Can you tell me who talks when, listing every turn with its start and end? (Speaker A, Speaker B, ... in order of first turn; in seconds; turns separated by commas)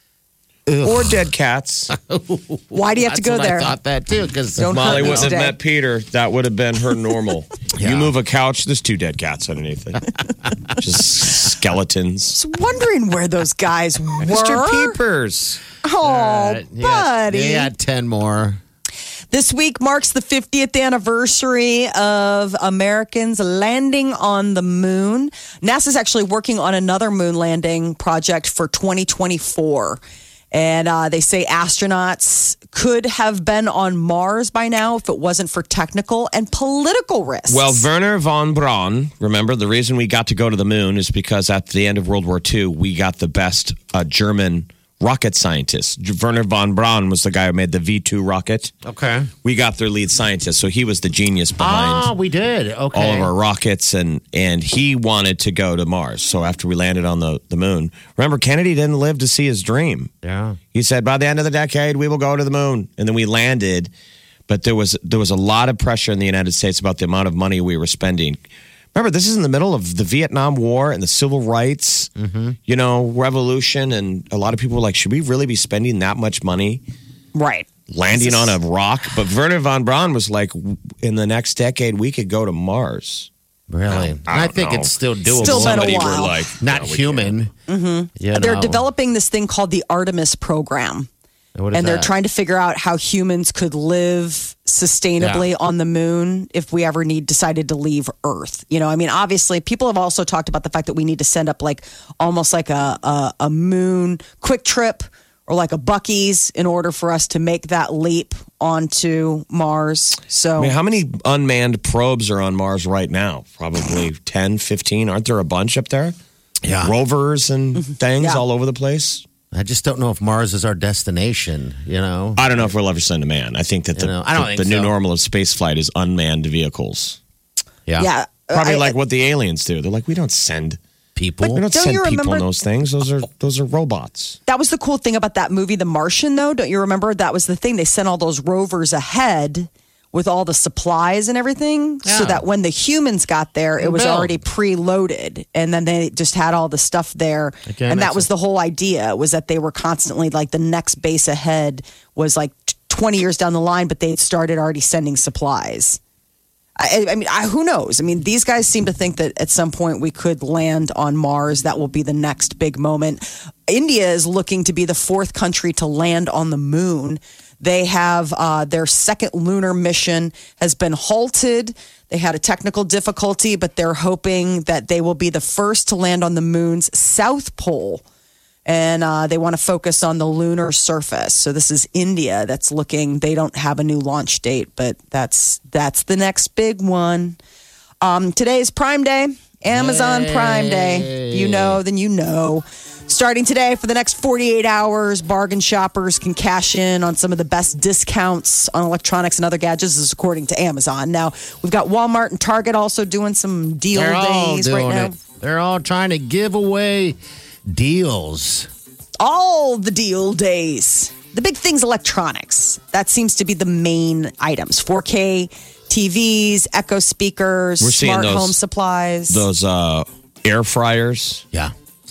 Speaker A: 0.7-1.3, Speaker B: 0.8-1.9, Speaker A: 1.9-5.3, Speaker C: 2.7-3.7, Speaker C: 4.6-5.6, Speaker B: 4.7-10.1, Speaker A: 7.7-8.1, Speaker B: 10.7-12.4, Speaker C: 12.3-15.0, Speaker B: 14.2-15.6, Speaker C: 15.8-17.7, Speaker A: 16.0-18.6, Speaker C: 19.3-37.9, Speaker B: 37.5-48.7, Speaker A: 48.8-49.3, Speaker B: 49.4-52.1, Speaker A: 51.6-53.3, Speaker B: 52.9-60.1, Speaker A: 60.2-60.6, Speaker B: 60.7-63.9, Speaker B: 64.5-68.4, Speaker B: 68.9-72.1, Speaker A: 72.2-72.6, Speaker B: 72.7-76.8, Speaker C: 77.3-78.6, Speaker B: 77.9-83.3, Speaker A: 83.7-87.5, Speaker B: 83.9-87.3, Speaker C: 85.4-86.4, Speaker C: 87.7-91.1, Speaker A: 88.2-88.8, Speaker A: 91.6-92.1, Speaker C: 91.7-110.7, Speaker A: 95.2-95.5, Speaker B: 110.6-116.2, Speaker A: 116.7-117.0, Speaker B: 116.8-119.2, Speaker C: 117.8-118.4, Speaker A: 119.5-122.7, Speaker B: 122.4-127.2, Speaker A: 123.9-124.9, Speaker C: 128.0-128.9, Speaker B: 128.5-130.8, Speaker A: 131.2-131.7, Speaker B: 131.5-134.4, Speaker C: 131.7-132.5, Speaker C: 134.5-156.0, Speaker A: 142.1-142.4, Speaker A: 143.8-144.4, Speaker A: 147.7-148.3, Speaker C: 156.8-178.0, Speaker C: 178.7-187.4, Speaker C: 188.0-205.2, Speaker A: 189.7-191.8, Speaker A: 203.9-208.7, Speaker C: 209.2-219.5, Speaker B: 217.8-218.6, Speaker B: 219.3-221.4